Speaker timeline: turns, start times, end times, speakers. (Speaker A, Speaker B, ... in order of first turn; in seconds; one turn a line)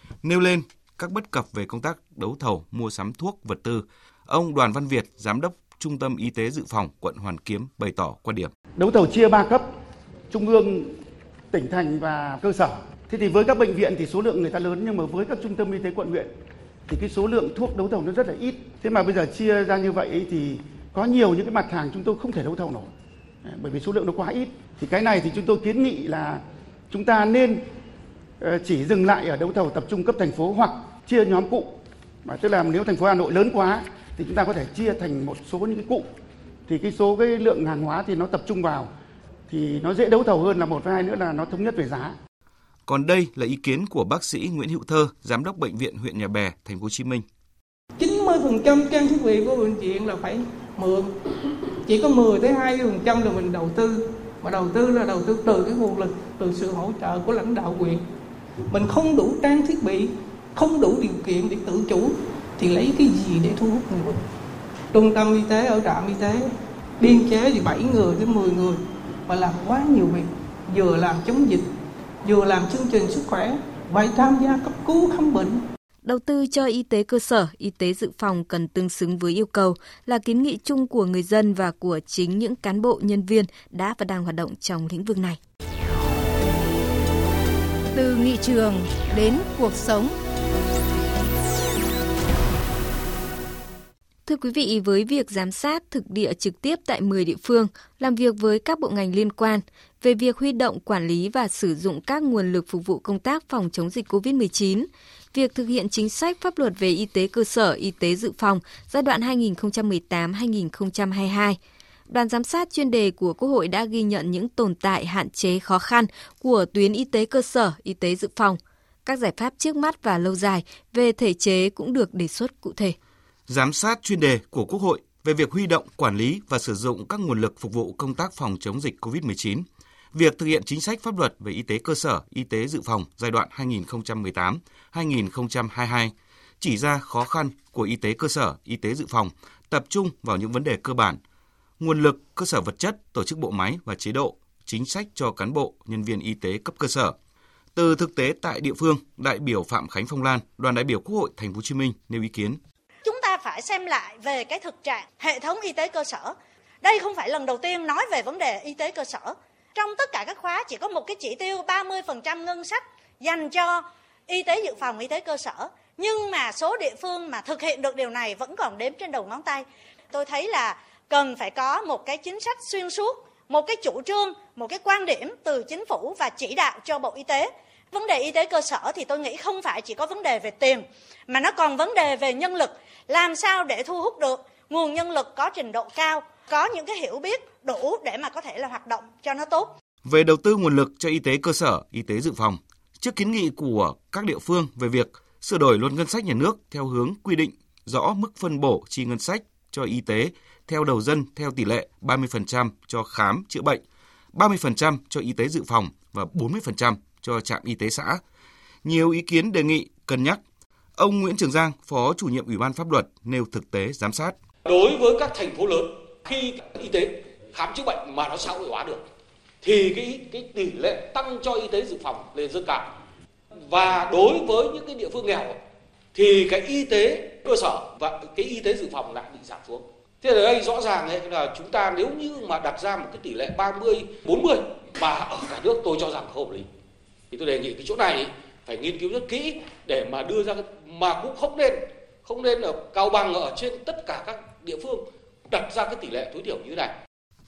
Speaker A: 0.2-8.5
Speaker B: 8.8-9.7
Speaker B: 10.3-10.9
Speaker B: 11.5-16.3
Speaker B: 16.9-22.9
Speaker B: 23.4-27.6
Speaker B: 28.4-36.0
Speaker B: 36.6-38.9
Speaker B: 39.5-42.1
Speaker A: 42.9-47.2
Speaker C: 48.0-51.1
Speaker C: 51.8-58.0
Speaker C: 58.7-64.2
Speaker C: 64.9-71.7
Speaker C: 72.2-75.6
Speaker D: 76.0-85.4
Speaker E: 87.9-90.1
Speaker D: 94.2-111.6
Speaker D: 112.1-123.0
Speaker A: 123.5-141.2
Speaker A: 141.8-147.1
Speaker A: 147.8-152.6
Speaker F: 153.0-189.7
Speaker A: 190.0-203.8
Speaker A: 204.3-208.2
Speaker A: 208.8-210.4
Speaker A: 211.0-214.3
Speaker G: 214.6-219.0
Speaker G: 219.6-222.9
Speaker G: 223.7-225.6
Speaker G: 226.1-236.7
Speaker G: 237.3-246.9